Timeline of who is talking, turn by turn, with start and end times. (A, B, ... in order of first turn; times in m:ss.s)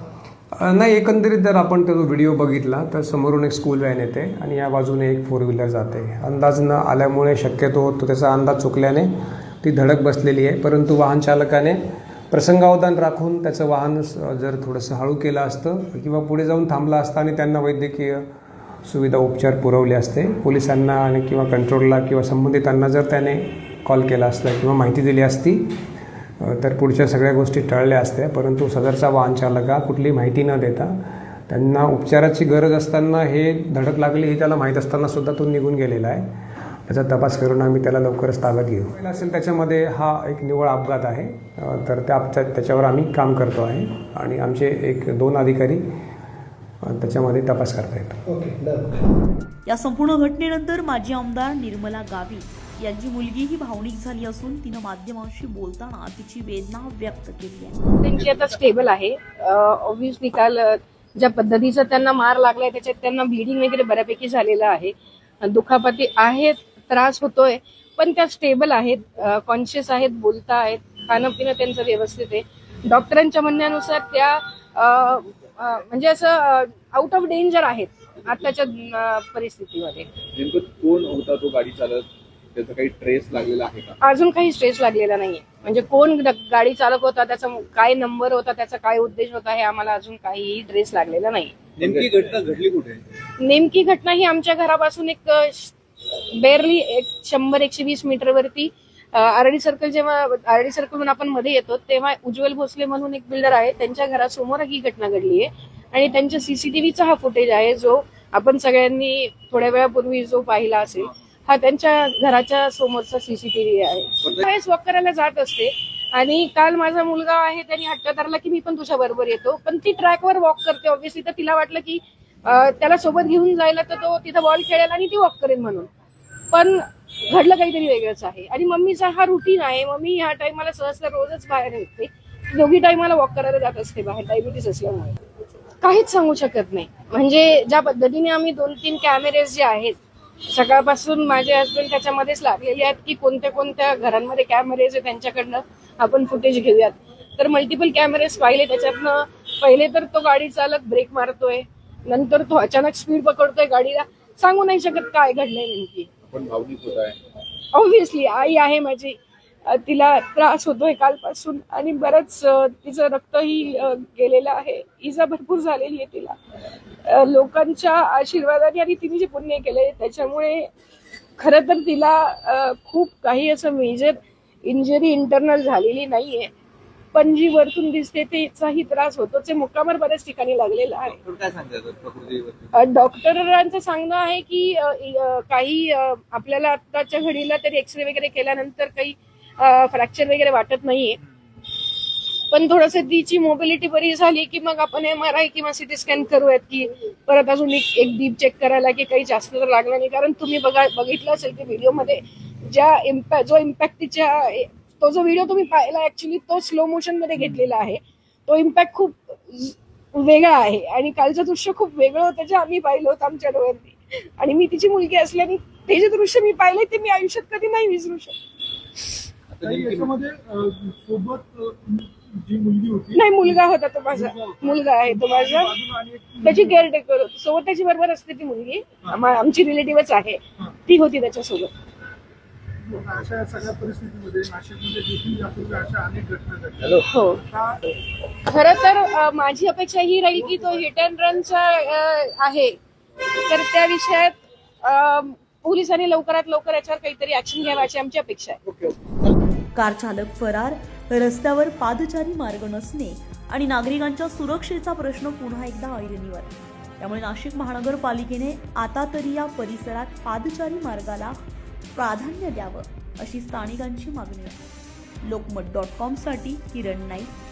0:00.5-0:09.1 A
0:09.6-0:11.8 A
0:12.3-0:18.2 A
0:18.8-0:25.7 A
0:26.4-0:31.0 A
0:31.5-0:36.2 A
0:36.9-0:45.8 A
0:46.8-0:48.6 A
0:49.6-0:57.8 B
0:58.0-1:20.1 C
1:20.3-1:24.0 D
1:24.0-1:31.5 C
1:31.8-1:33.0 D
1:33.4-2:05.9 C
2:06.5-2:15.2 C
2:15.8-2:20.0 C
2:20.5-2:36.1 C
2:36.3-2:37.2 D
2:37.7-2:46.3 C
2:47.0-2:50.7 C
2:51.4-2:56.5 C
2:57.1-3:01.2 C
3:01.2-3:02.7 D
3:02.7-3:11.2 C
3:12.5-3:38.4 C
3:39.5-3:40.1 D
3:39.6-3:46.8 E
3:43.1-3:45.7 C
3:46.4-3:51.7 C
3:52.8-3:57.0 E
3:57.0-3:57.4 C
3:58.5-4:02.7 C
4:03.3-4:08.6 C
4:09.7-4:21.4 B
4:21.9-4:24.6 B
4:25.2-4:27.3 B